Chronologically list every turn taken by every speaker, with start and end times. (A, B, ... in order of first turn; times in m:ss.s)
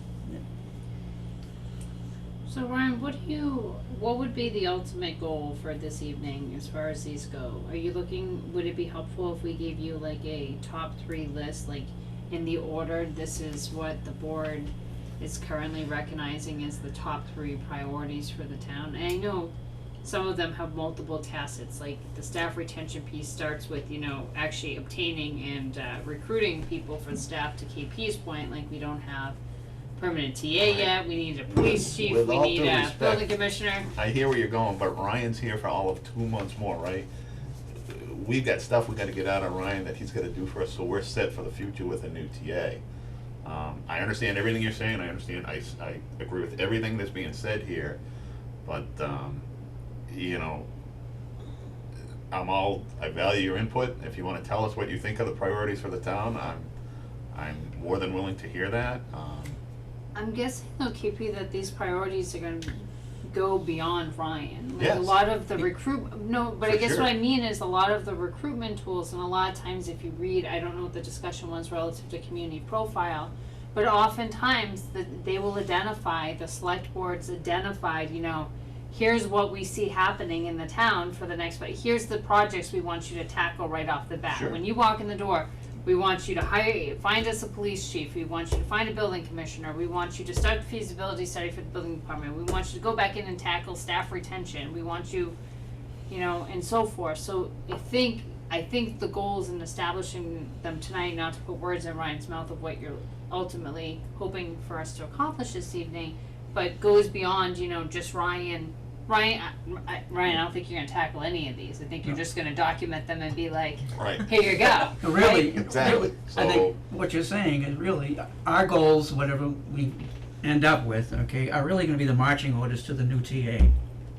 0:02.5-0:29.4 A
0:30.0-0:33.9 A
0:30.6-0:37.1 B
0:37.8-0:42.8 B
0:43.4-0:48.0 B
0:48.6-0:49.5 B
0:50.1-0:50.7 B
0:52.3-0:56.7 B
0:57.3-0:59.6 B
1:00.2-1:35.4 A
1:04.8-1:05.4 B
1:06.6-1:07.2 B
1:24.3-1:24.6 B
1:36.1-1:55.4 A
1:54.0-1:56.8 B
1:55.0-2:03.7 C